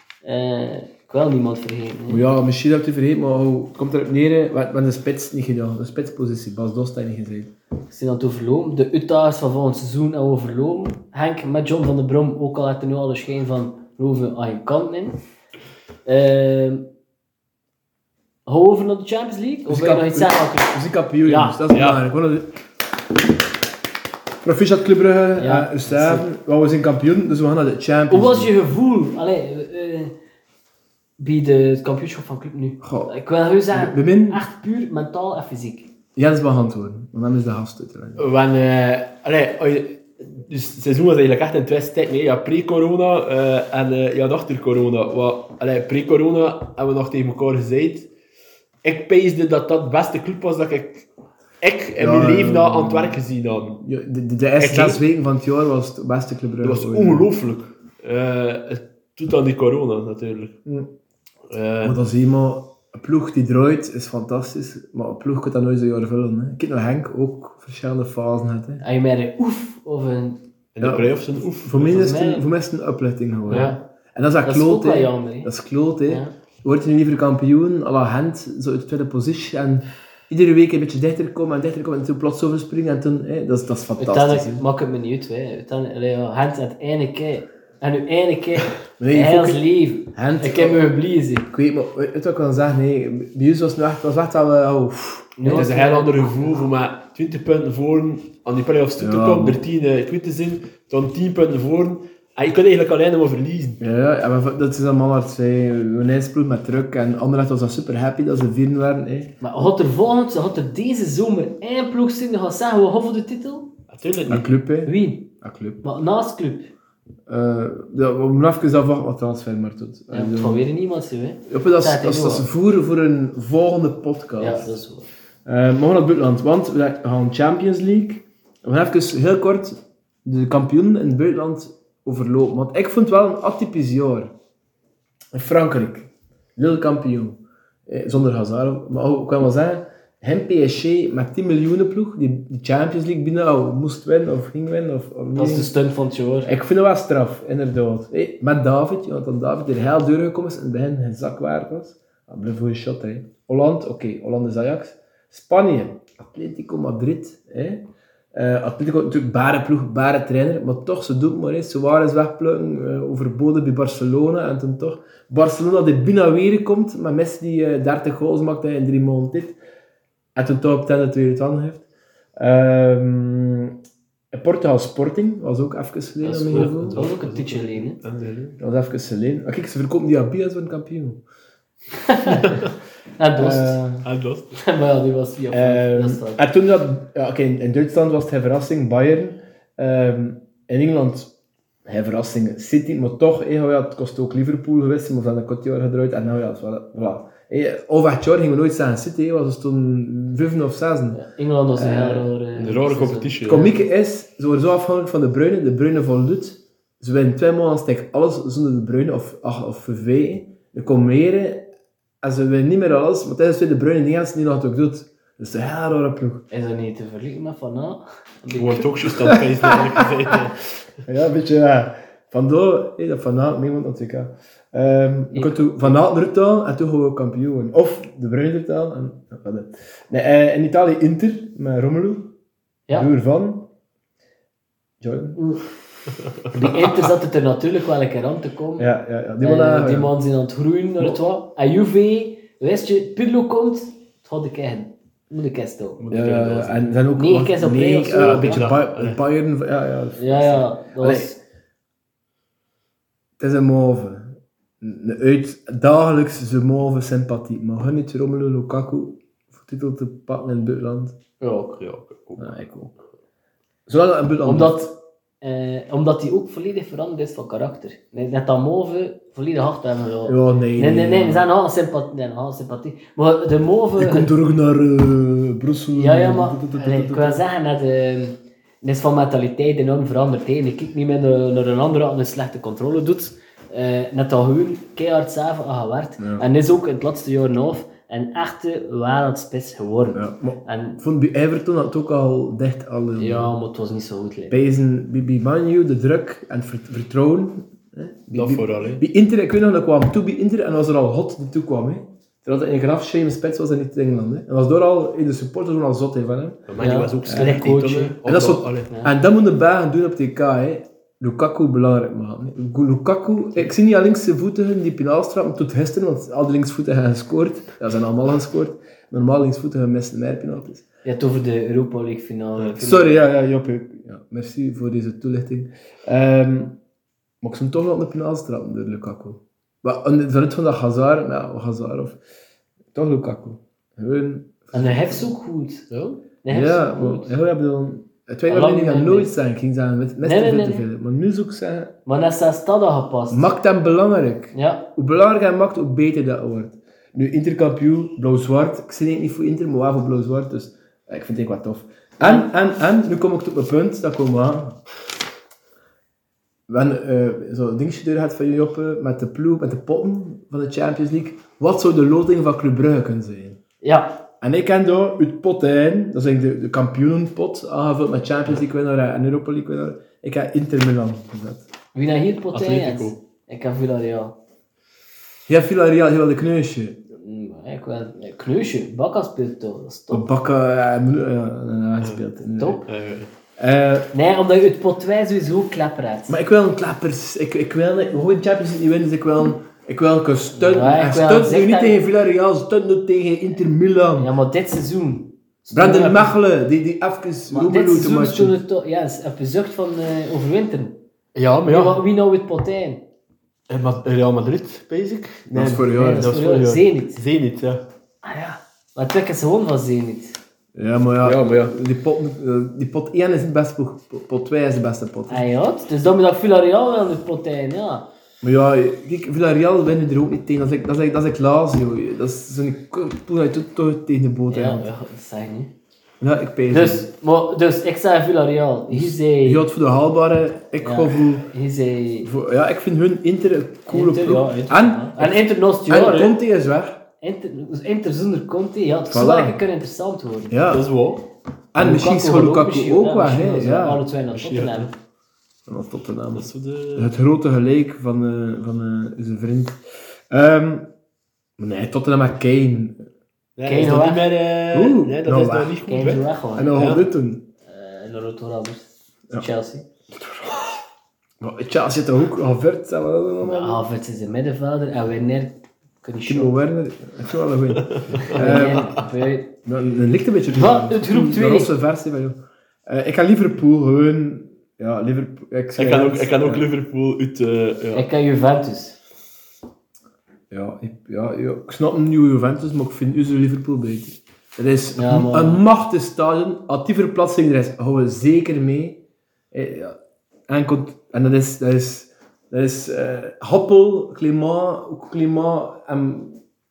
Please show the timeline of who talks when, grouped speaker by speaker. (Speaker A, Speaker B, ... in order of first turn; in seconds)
Speaker A: 0.2-2.2, 7.9-15.2, 16.1-16.9, 18.4-21.6, 25.4-26.2, 28.1-30.1, 31.2-35.9, 68.8-70.4, 71.8-72.5, 73.5-73.8, 74.4-75.5, 76.0-76.3, 84.0-91.5, 95.4-96.6, 109.4-113.7, 114.8-115.3, 115.8-116.7, 120.1-122.5, 124.4-125.1, 145.3-146.5, 176.2-178.0, 182.0-182.6, 183.2-186.4, 201.1-203.7, 216.5-218.9, 225.3-226.0, 235.3-235.6, 236.5-238.9, 239.4-246.0, 247.1-248.7, 250.2-251.4, 261.4-261.8, 264.4-274.3, 275.9-291.0, 293.2-294.6, 306.8-308.2, 321.0-323.2, 334.7-335.9, 336.4-337.3, 338.5-339.3, 340.2-340.9, 342.1-343.5, 344.5-344.9, 352.2-352.5, 363.8-364.2, 371.9-374.4, 377.2-380.2, 382.6-382.8, 384.1-386.4, 390.6-392.0, 394.2-396.3, 397.5-401.0, 401.6-403.0, 405.9-407.2, 408.2-410.4, 415.3-418.1, 424.5-425.7, 426.7-429.6, 430.8-432.3, 433.9-436.4, 437.2-440.6, 441.8-444.9, 453.6-454.3, 455.9-456.9, 457.7-459.9, 463.4-466.5, 468.3-469.6, 470.5-471.7, 477.9-479.0, 484.9-485.6
Speaker B: 2.1-7.5, 19.7-22.6, 24.4-28.5, 32.8-33.1, 33.7-34.4, 36.1-38.2, 52.0-53.2, 53.8-57.3, 61.8-68.8, 70.8-84.6, 89.0-89.6, 90.1-90.8, 91.5-95.6, 99.0-99.6, 103.8-109.3, 114.3-115.8, 117.3-120.6, 121.5-124.8, 125.4-134.3, 135.3-145.7, 146.4-169.6, 170.3-171.8, 172.3-173.8, 174.3-177.0, 178.6-181.2, 183.3-183.8, 185.5-191.3, 191.8-201.2, 201.7-202.3, 203.4-211.7, 212.2-216.4, 219.3-220.3, 221.1-232.3, 232.9-233.7, 235.0-235.4, 238.8-240.1, 246.1-251.3, 253.4-261.1, 262.4-262.9, 263.9-264.9, 270.3-271.5, 274.0-277.4, 286.2-286.4, 290.1-293.5, 294.5-306.6, 307.2-307.6, 308.2-320.8, 322.8-326.8, 327.4-332.2, 332.9-335.3, 336.5-341.9, 343.3-354.8, 356.7-363.6, 364.4-371.6, 375.5-377.0, 380.1-382.8, 383.6-384.1, 386.3-394.3, 395.7-398.6, 405.5-406.4, 410.7-415.4, 418.4-424.9, 426.2-427.1, 428.9-431.5, 432.2-437.0, 439.1-439.6, 440.5-440.9, 441.7-444.0, 445.7-450.9, 451.6-453.0, 454.7-455.8, 456.5-457.4, 461.4-463.8, 466.2-469.0, 469.6-476.6, 480.5-489.9, 490.5-496.4
Speaker C: 21.7-22.0, 38.2-48.1, 48.8-51.1, 51.6-53.8, 54.6-55.0, 56.6-60.6, 61.5-62.0, 70.7-72.1, 95.4-103.8, 113.9-114.5, 176.4-178.6, 182.3-182.7, 184.0-184.6, 202.6-203.7, 218.5-220.7, 246.0-247.0, 248.1-249.2, 261.8-262.5, 298.3-299.0, 306.7-308.9, 335.9-336.2, 372.5-373.1, 382.9-383.3, 401.3-402.0, 403.7-407.8, 411.2-411.7, 440.7-441.2, 444.3-444.9, 446.3-447.1, 453.6-457.1, 467.8-469.0, 475.8-478.1